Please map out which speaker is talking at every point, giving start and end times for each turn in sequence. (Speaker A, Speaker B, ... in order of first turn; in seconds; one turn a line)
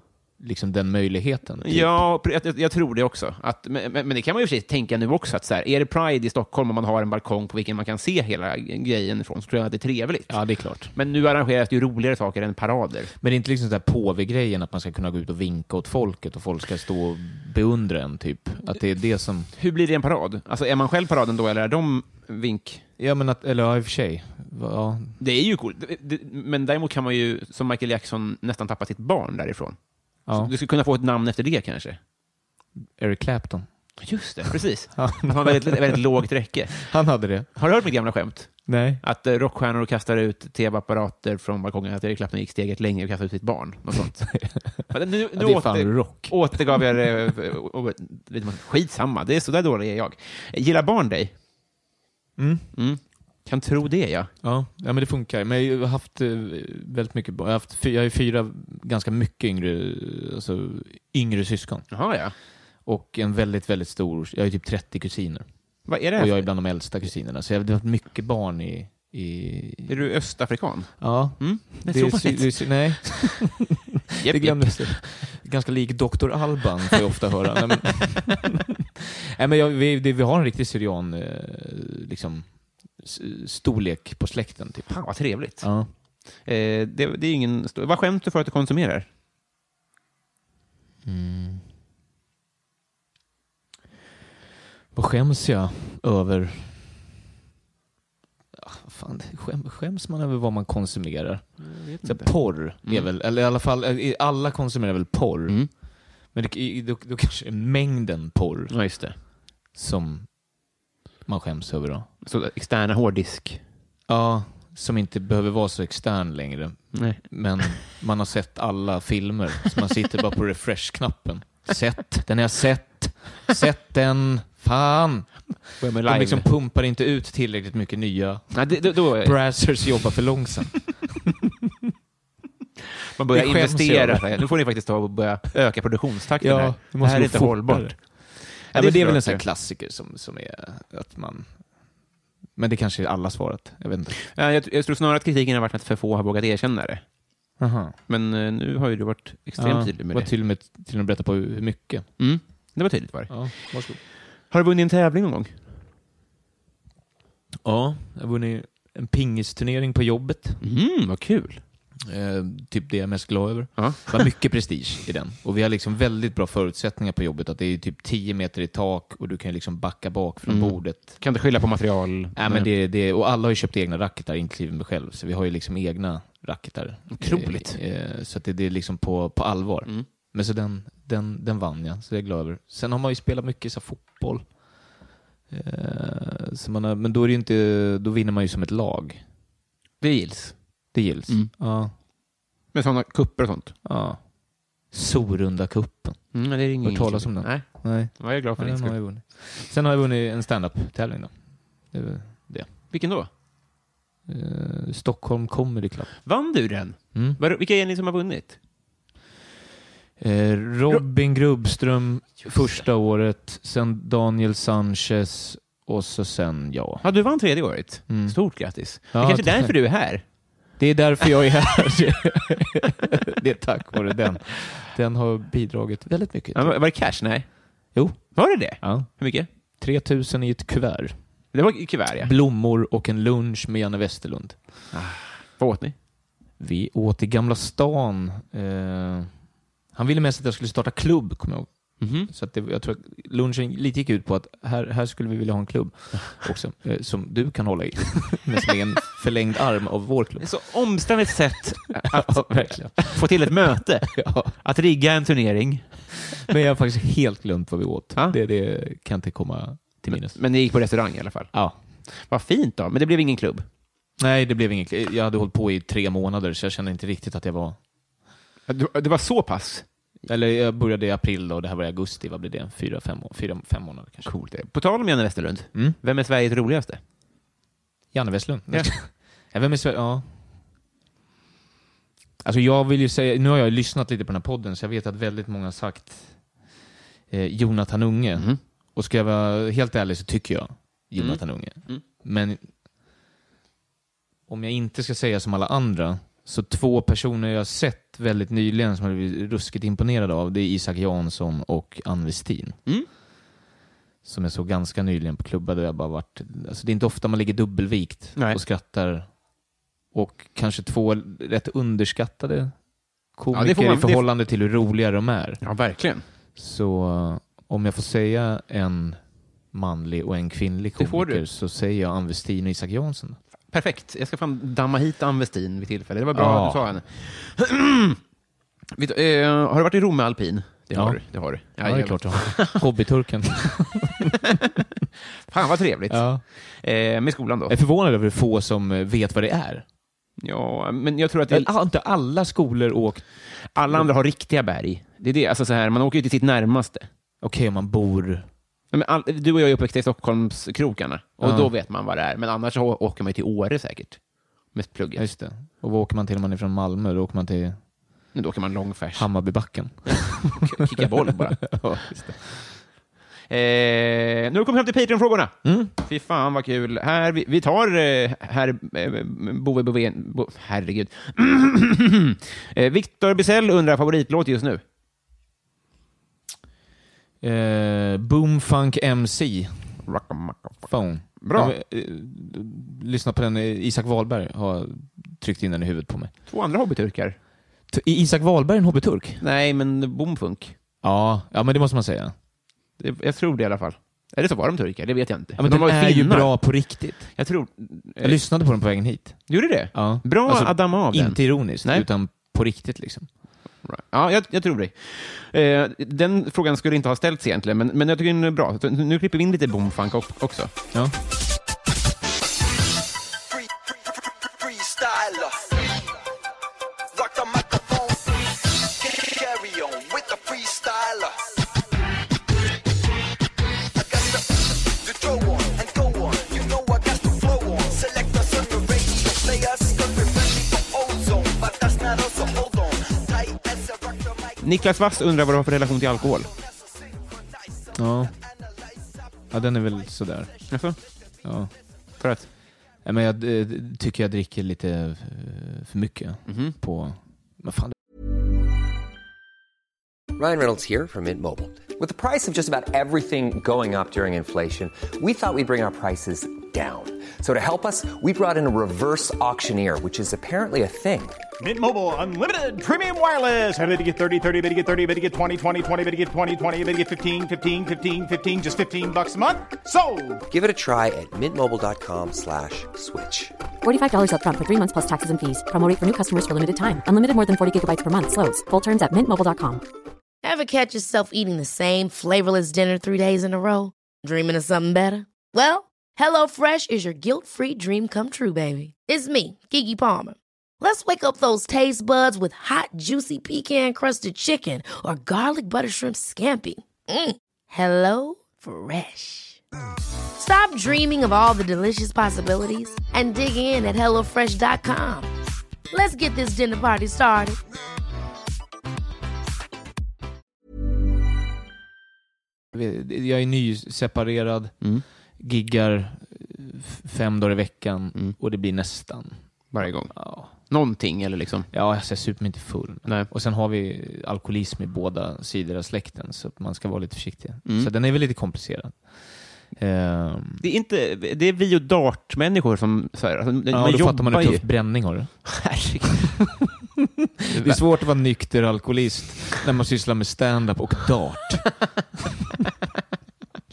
Speaker A: 0.4-2.0
Speaker B: 1.6-13.1
Speaker A: 10.3-10.9
Speaker A: 13.2-19.5
Speaker B: 19.5-22.8
Speaker A: 23.0-25.2
Speaker B: 25.2-32.0
Speaker A: 30.2-30.5
Speaker A: 33.0-33.7
Speaker B: 34.0-36.9
Speaker A: 34.9-36.0
Speaker A: 36.8-37.5
Speaker B: 37.5-51.3
Speaker A: 38.7-39.0
Speaker A: 44.3-46.8
Speaker A: 52.4-52.7
Speaker B: 52.7-54.3
Speaker A: 54.4-62.0
Speaker B: 61.9-62.3
Speaker A: 62.8-70.0
Speaker B: 65.8-66.5
Speaker B: 69.9-73.3
Speaker A: 71.0-78.6
Speaker B: 74.2-75.3
Speaker A: 79.3-85.9
Speaker B: 84.9-85.8
Speaker B: 86.3-89.1
Speaker A: 91.0-91.7
Speaker A: 94.9-97.0
Speaker A: 98.5-105.8
Speaker B: 101.6-103.1
Speaker A: 106.3-109.0
Speaker B: 108.7-109.2
Speaker A: 109.7-110.4
Speaker A: 111.2-112.1
Speaker B: 112.2-113.6
Speaker A: 114.1-131.2
Speaker B: 116.9-117.2
Speaker B: 125.8-126.5
Speaker B: 128.5-129.6
Speaker B: 133.1-139.4
Speaker A: 133.3-134.5
Speaker A: 136.4-141.6
Speaker A: 142.6-144.2
Speaker B: 144.3-147.0
Speaker A: 147.6-148.0
Speaker B: 148.1-150.3
Speaker A: 149.6-152.1
Speaker B: 152.2-153.8
Speaker A: 153.3-154.0
Speaker B: 154.5-155.7
Speaker A: 157.6-160.6
Speaker B: 160.6-161.6
Speaker A: 162.0-171.2
Speaker B: 163.8-164.3
Speaker B: 170.4-172.7
Speaker A: 172.3-184.6
Speaker B: 177.1-177.8
Speaker A: 185.5-189.2
Speaker B: 190.0-190.6
Speaker A: 190.9-191.9
Speaker B: 192.7-193.7
Speaker A: 193.8-194.2
Speaker A: 194.8-201.3
Speaker B: 196.3-199.0
Speaker A: 201.9-202.7
Speaker B: 202.9-203.3
Speaker A: 204.3-206.2
Speaker B: 206.2-208.6
Speaker A: 207.1-207.4
Speaker A: 210.2-217.1
Speaker B: 212.4-212.8
Speaker B: 217.0-220.2
Speaker A: 218.1-219.7
Speaker A: 220.8-226.8
Speaker B: 226.5-229.5
Speaker A: 227.9-229.2
Speaker A: 229.8-231.2
Speaker B: 231.5-232.3
Speaker A: 232.2-234.7
Speaker B: 234.9-235.9
Speaker A: 236.6-239.3
Speaker A: 239.9-250.5
Speaker B: 242.0-242.3
Speaker B: 250.4-256.1
Speaker A: 252.0-253.5
Speaker A: 254.1-254.5
Speaker A: 256.5-260.4
Speaker B: 260.1-263.6
Speaker A: 261.5-261.8
Speaker A: 264.2-267.8
Speaker B: 268.7-269.9
Speaker A: 270.2-274.3
Speaker B: 274.2-277.0
Speaker A: 278.1-280.3
Speaker A: 282.4-286.4
Speaker A: 287.3-292.7
Speaker B: 291.2-292.0
Speaker A: 294.5-302.8
Speaker A: 304.2-309.3
Speaker A: 310.1-312.8
Speaker A: 313.3-315.6
Speaker B: 313.5-314.2
Speaker B: 315.6-316.2
Speaker A: 316.6-323.4
Speaker B: 321.0-321.4
Speaker B: 323.7-328.2
Speaker A: 326.3-327.0
Speaker B: 328.9-332.8
Speaker A: 330.9-334.3
Speaker B: 335.5-337.8
Speaker A: 336.1-336.4
Speaker A: 337.7-339.8
Speaker B: 340.4-341.7
Speaker A: 341.5-344.1
Speaker B: 343.7-347.1
Speaker A: 347.4-348.5
Speaker B: 348.9-355.2
Speaker A: 351.4-351.7
Speaker A: 355.1-357.8
Speaker B: 358.3-362.3
Speaker A: 359.1-361.1
Speaker A: 361.6-362.8
Speaker B: 363.5-374.8
Speaker A: 365.6-365.9
Speaker A: 377.4-380.0
Speaker B: 380.0-381.7
Speaker A: 380.9-386.3
Speaker B: 386.5-387.4
Speaker A: 387.9-389.4
Speaker B: 389.4-390.7
Speaker A: 391.0-392.3
Speaker B: 393.0-396.7
Speaker A: 395.6-397.4
Speaker B: 397.4-398.4
Speaker A: 398.2-403.3
Speaker B: 399.5-402.1
Speaker B: 403.8-410.7
Speaker C: 414.5-415.6
Speaker C: 417.1-418.3
Speaker C: 419.0-421.4
Speaker C: 424.0-434.5
Speaker B: 434.6-436.5
Speaker A: 437.9-438.3
Speaker A: 439.5-440.6
Speaker B: 440.7-441.0
Speaker A: 441.4-441.7
Speaker B: 442.2-442.5
Speaker A: 443.0-447.9
Speaker B: 446.5-446.7
Speaker D: 450.3-461.4
Speaker E: 461.6-470.4
Speaker D: 470.5-473.5
Speaker F: 473.8-479.8
Speaker G: 480.4-499.6
Speaker G: 500.4-505.3
Speaker G: 505.9-507.6
Speaker A: 512.7-514.8
Speaker A: 515.4-520.5
Speaker B: 519.7-521.7
Speaker A: 521.7-530.6
Speaker B: 523.0-523.3
Speaker B: 527.6-527.9
Speaker B: 530.6-536.6
Speaker A: 533.7-535.5
Speaker B: 537.5-537.8
Speaker A: 537.5-541.8